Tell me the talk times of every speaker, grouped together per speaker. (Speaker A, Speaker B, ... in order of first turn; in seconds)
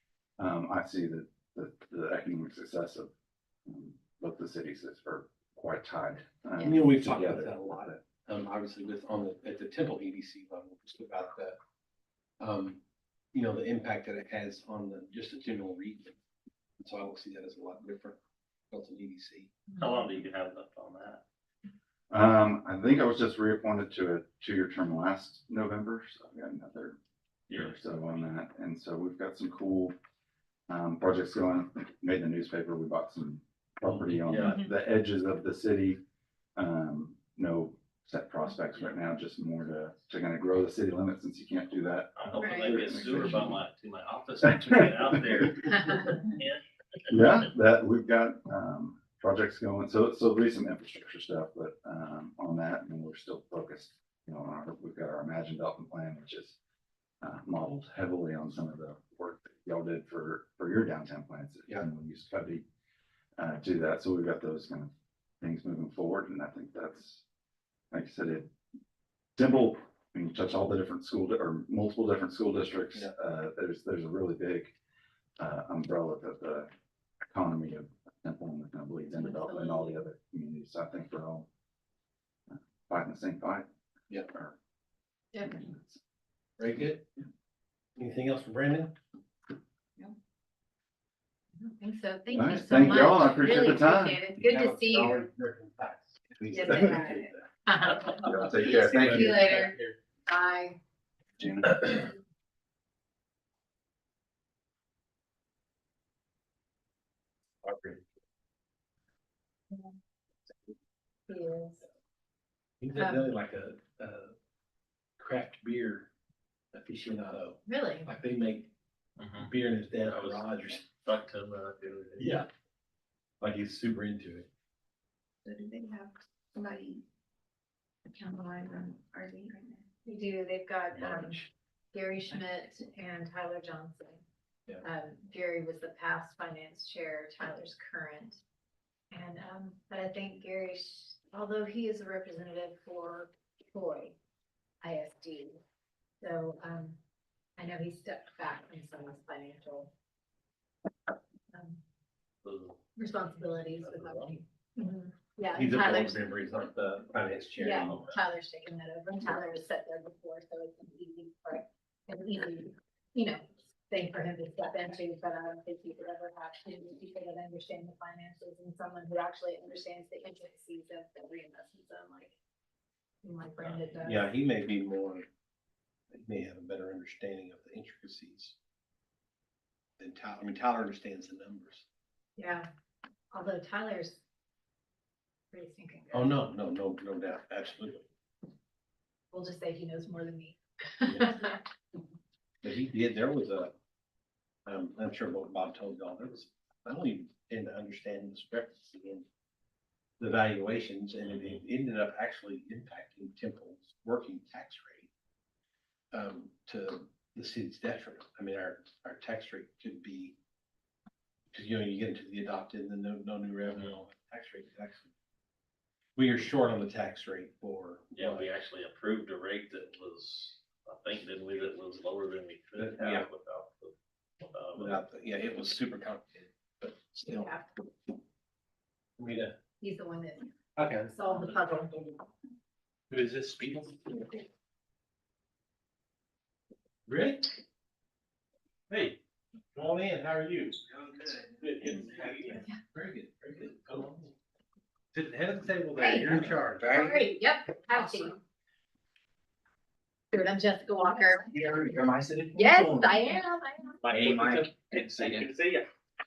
Speaker A: 0.4-3.1, 3.6-8.0, 22.1-27.0, 27.5-29.9, 30.7-36.0, 36.5-43.6, 47.1-56.6, 57.2-62.6, 63.4-67.2, 67.9-68.5, 69.4-74.7, 75.4-76.7, 77.3-81.5, 82.5-83.7, 84.3-84.5, 85.5-86.0, 92.3-94.2, 98.2-99.7, 101.4-101.7
Speaker B: 6.6-6.8, 34.4-34.7, 42.4-42.8, 79.1-80.0, 85.3-85.6, 91.6-95.2, 96.5-99.7, 100.3-100.8, 111.3-111.8, 113.0-113.2, 117.7-118.1, 130.1-131.4, 131.9-134.2, 134.8-138.4, 139.1-144.1, 144.8-145.6, 146.2-147.0, 147.6-149.9, 151.5-151.8, 152.9-156.2, 157.6-172.3, 173.2-174.3, 182.3-182.7, 183.3-184.2, 185.5-186.4, 189.3-191.6, 227.3-227.7, 229.8-230.5, 231.1-232.2, 246.0-248.4, 250.3-251.5, 252.5-254.1
Speaker C: 6.6-11.6, 12.4-12.8, 13.3-16.1, 16.8-18.2, 18.7-19.5, 86.6-87.1, 88.0-88.9, 94.4-97.4, 98.6-100.0, 107.6-108.0, 112.8-114.3, 115.2-116.1, 116.7-118.7, 119.4-120.8, 122.2-122.5, 123.4-124.5, 131.0-131.5, 155.5-158.1, 174.0-175.2, 176.1-178.6, 180.0-181.8, 186.1-188.1, 191.1-191.3, 192.6-193.7, 194.7-199.2, 200.2-205.1, 206.1-210.3, 211.5-215.1, 216.2-218.5, 222.8-223.3, 224.7-227.5, 229.2-229.6, 230.8-231.1, 233.1-234.4, 237.1-237.6, 238.9-239.2, 239.7-244.3, 245.1-247.1
Speaker D: 19.8-21.2, 27.5-27.8, 33.9-34.6, 42.1-47.5, 97.8-98.4, 119.2-122.3, 152.4-152.8, 153.8-154.3, 157.8-158.2, 173.6-174.0, 201.2-201.6, 218.1-225.0, 254.1-255.8
Speaker E: 125.4-127.0, 128.1-129.8
Speaker F: 247.9-248.3, 251.2-253.4, 254.0-255.5